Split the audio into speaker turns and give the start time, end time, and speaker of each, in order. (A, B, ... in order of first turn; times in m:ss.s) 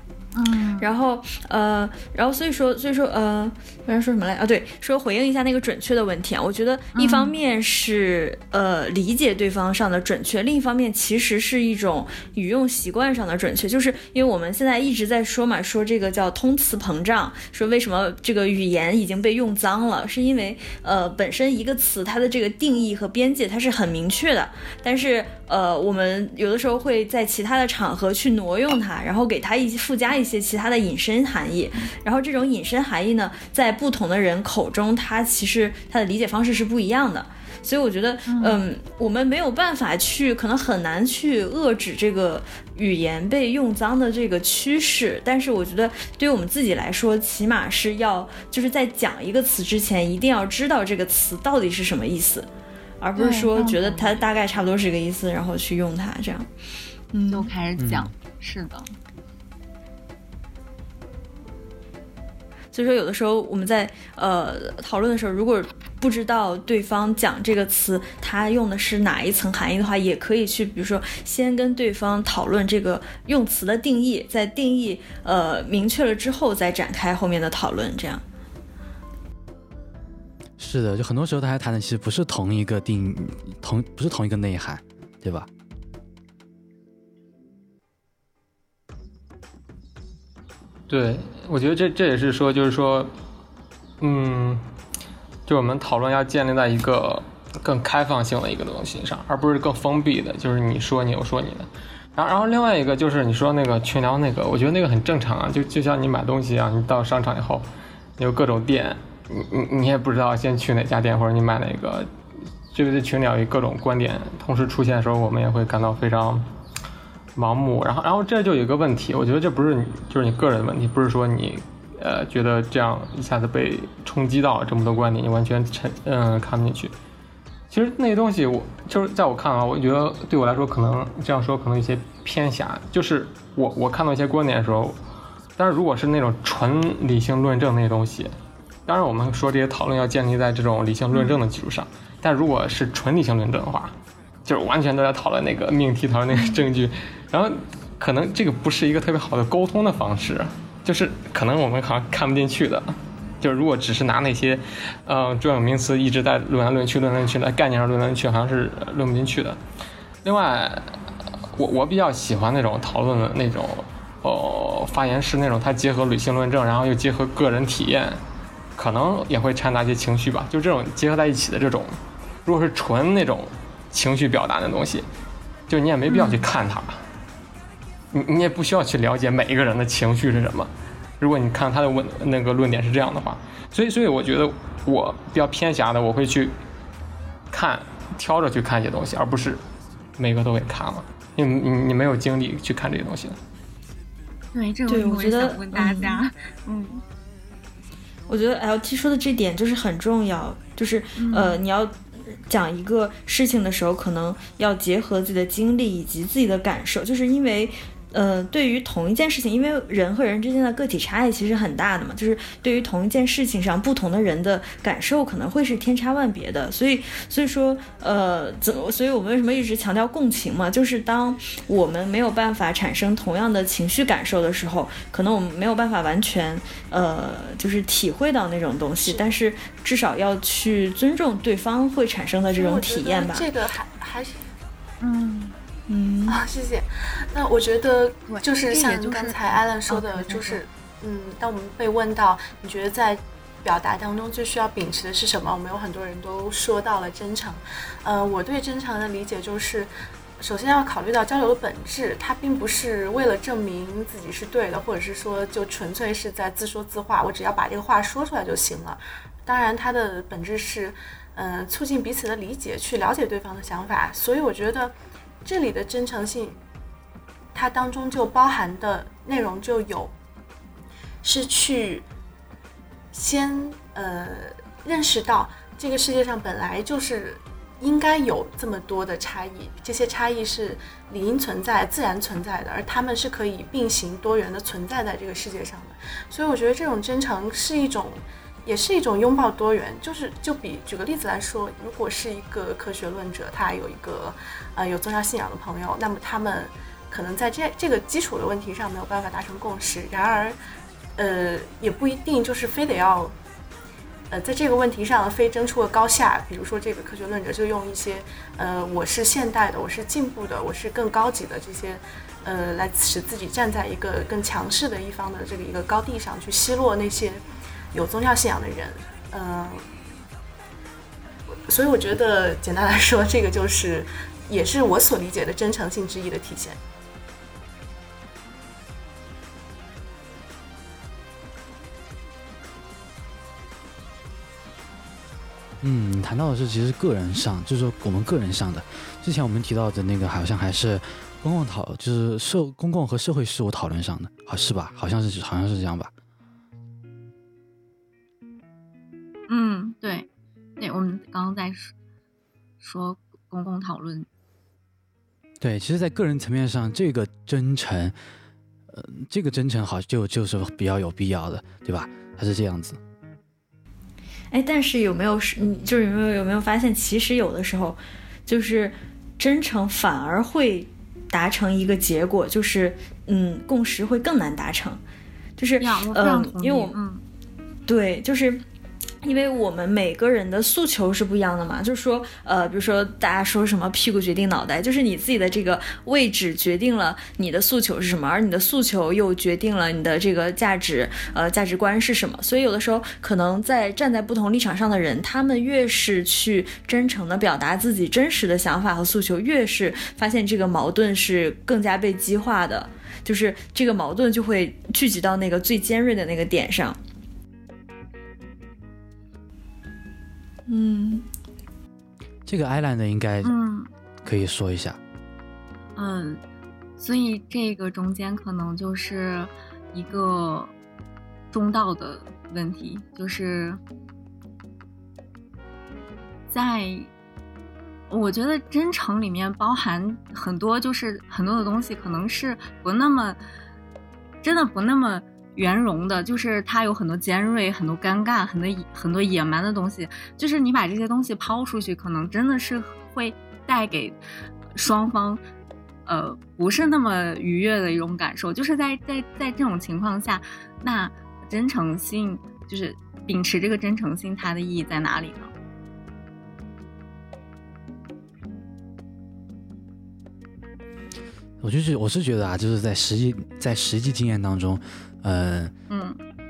0:00.3-0:00.9 A
0:00.8-0:52.5 B
0:06.9-0:07.3 A
0:38.3-0:38.6 A
0:53.0-0:56.5 B
0:53.2-0:54.2 A
0:57.1-0:57.5 B
0:57.3-0:58.9 A
0:57.8-0:58.1 C
1:02.7-1:18.2 B
1:20.6-1:25.5 C
1:30.9-1:33.1 D
1:34.0-1:34.6 D
1:35.5-1:47.6 D
1:48.2-1:52.1 D
1:52.7-1:56.5 D
1:57.4-2:06.9 D
2:07.7-2:15.0 D
2:15.6-2:18.3 D
2:18.9-2:39.6 D
2:21.1-2:21.4 A
2:26.3-2:26.6 A
2:40.2-2:40.9 D
2:41.6-2:48.2 D
2:48.8-2:55.0 D
2:55.7-2:57.0 D
2:56.1-2:56.4 A
2:58.1-3:06.5 D
3:07.5-3:09.6 D
3:10.2-3:13.4 D
3:14.5-3:17.0 A
3:14.9-3:16.2 B
3:18.3-3:53.5 B
3:21.2-3:21.6 A
3:49.0-3:49.3 E
3:52.6-3:54.4 E
3:55.0-3:55.6 A
3:55.9-3:56.4 B
3:56.3-4:26.6 E
3:58.3-4:00.6 A
4:27.5-4:30.1 E
4:31.2-4:32.0 E
4:33.1-5:00.6 E
5:01.2-5:03.3 E
5:04.3-5:17.4 E
5:17.9-5:19.8 E
5:21.7-5:26.8 E
5:35.8-5:46.1 C
5:49.5-5:50.3 A
5:50.8-5:51.9 A
5:52.8-5:54.3 A
5:55.6-5:58.2 C
5:58.9-6:03.0 C
6:04.5-6:15.0 B
6:15.6-6:17.0 B
6:15.8-6:17.2 A
6:17.9-6:18.6 B
6:19.2-6:47.0 B
6:50.7-6:51.3 B
6:52.4-6:53.5 C
6:53.4-6:53.9 A
6:54.2-6:55.0 C
6:56.0-6:56.4 A
6:57.0-7:00.7 A
7:01.5-7:03.8 A
7:06.5-7:07.1 A
7:08.1-7:13.4 A
7:14.4-7:24.2 A
7:24.7-7:25.4 A
7:26.0-7:35.5 A
7:41.6-7:45.7 C
7:45.9-7:46.2 A